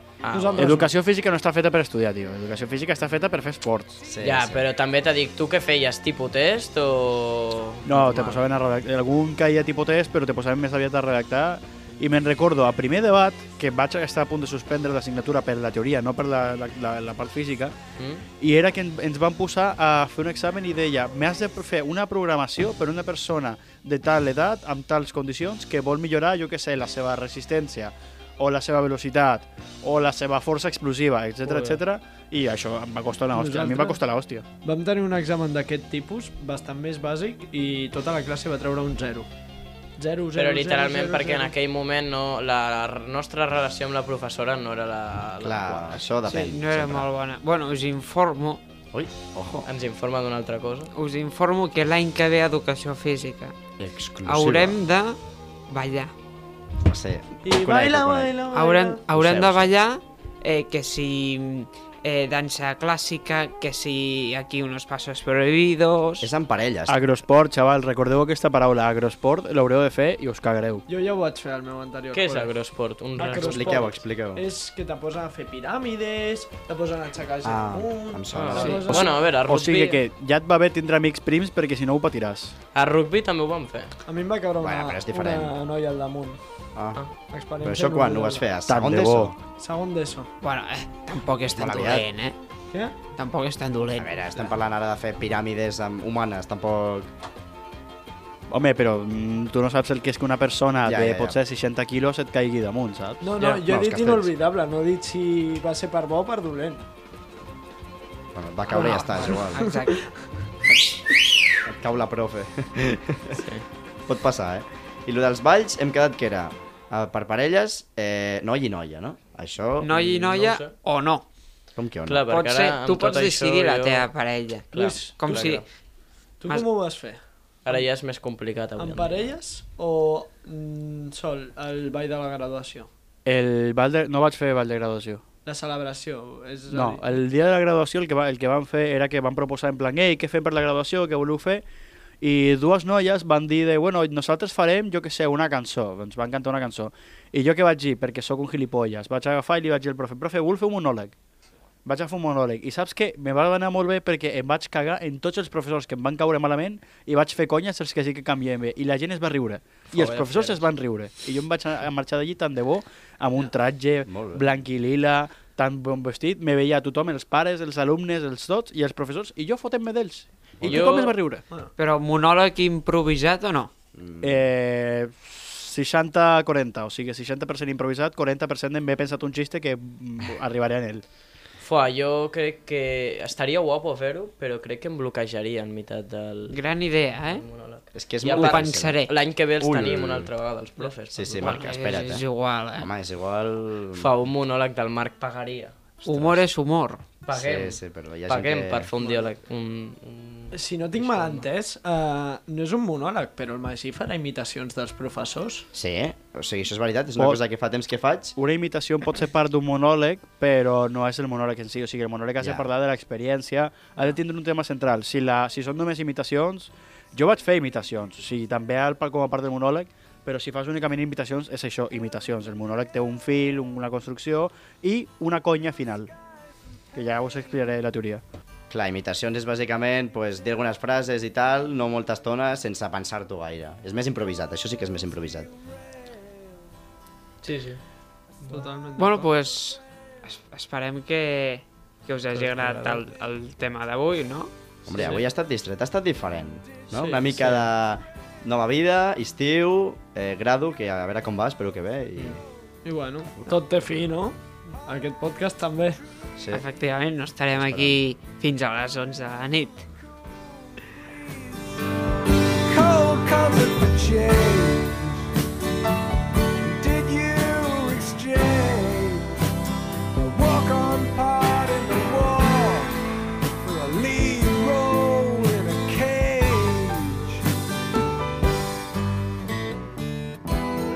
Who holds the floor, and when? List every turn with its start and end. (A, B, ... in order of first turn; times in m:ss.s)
0:00.2-0:00.7 A
0:00.3-0:01.0 B
0:00.6-0:04.0 C
0:04.0-0:04.6 D
0:04.2-0:08.4 A
0:07.8-0:17.8 C
0:18.0-0:18.2 A
0:18.4-0:34.4 C
0:33.3-0:34.0 B
0:34.6-0:39.3 B
0:40.0-0:41.5 B
0:40.4-0:46.0 A
0:45.4-0:47.1 D
0:46.3-0:48.6 E
0:48.9-0:49.6 D
0:49.7-0:50.9 A
0:50.9-0:53.6 E
0:53.8-0:54.8 D
0:54.2-0:55.2 E
0:55.7-0:56.1 E
0:56.8-0:58.4 D
0:57.4-0:59.0 B
0:58.5-1:06.3 E
0:59.1-0:59.7 D
1:06.2-1:07.0 D
1:06.9-1:10.8 C
1:10.9-1:12.5 B
1:12.1-1:13.8 A
1:13.2-1:19.3 B
1:13.4-1:14.5 D
1:17.4-1:19.1 D
1:18.3-1:20.0 A
1:18.9-1:22.5 C
1:22.8-1:24.0 A
1:24.1-1:26.4 B
1:24.6-1:25.6 D
1:26.8-1:27.0 D
1:27.3-1:28.5 B
1:27.6-1:29.4 D
1:28.7-1:29.4 C
1:29.6-1:30.3 B
1:30.4-1:32.4 E
1:31.5-1:32.0 D
1:33.2-1:34.2 E
1:34.0-1:37.1 D
1:38.5-1:43.4 C
1:40.8-1:41.4 D
1:43.2-1:46.8 B
1:43.4-1:44.3 D
1:48.3-1:49.8 D
1:48.7-1:50.0 E
1:49.3-1:50.0 B
1:51.6-1:53.4 D
1:53.3-1:53.7 A
1:54.1-2:00.0 D
1:59.8-2:01.2 E
1:59.9-2:00.7 A
2:01.8-2:02.3 D
2:02.1-2:04.1 A
2:02.3-2:05.6 E
2:04.7-2:05.5 B
2:04.8-2:05.6 A
2:06.4-2:07.9 B
2:07.7-2:09.3 A
2:08.8-2:12.9 B
2:13.3-2:15.2 C
2:15.4-2:17.1 B
2:16.7-2:21.6 C
2:22.2-2:31.2 C
2:31.8-2:51.4 C
2:39.9-2:40.7 A
2:44.1-2:44.4 D
2:50.6-2:50.9 D
2:50.6-2:51.2 A
2:51.8-2:53.7 E
2:54.0-2:54.4 D
2:54.2-3:01.0 C
3:01.6-3:06.6 A
3:06.5-3:07.4 E
3:07.3-3:11.7 A
3:07.9-3:09.0 D
3:08.4-3:09.2 E
3:09.6-3:10.3 D
3:11.1-3:14.1 D
3:11.4-3:12.9 E
3:13.9-3:15.8 A
3:16.0-3:16.5 D
3:16.0-3:17.0 E
3:17.2-3:21.5 A
3:17.3-3:18.9 D
3:19.0-3:19.3 B
3:20.5-3:25.7 B
3:25.7-3:28.4 D
3:28.4-3:46.1 C
3:32.4-3:32.6 D
3:46.9-3:48.2 C
3:48.7-3:55.5 D
3:57.4-3:57.8 A
3:58.5-3:59.3 B
3:59.0-4:04.5 E
4:02.4-4:03.0 A
4:04.9-4:12.4 D
4:04.9-4:05.2 A
4:07.0-4:07.4 B
4:12.8-4:16.0 B
4:16.4-4:16.6 D
4:16.5-4:19.9 E
4:17.6-4:18.0 D
4:22.5-4:25.2 F
4:26.6-4:29.3 F
4:30.2-4:33.0 F
4:33.6-4:37.4 F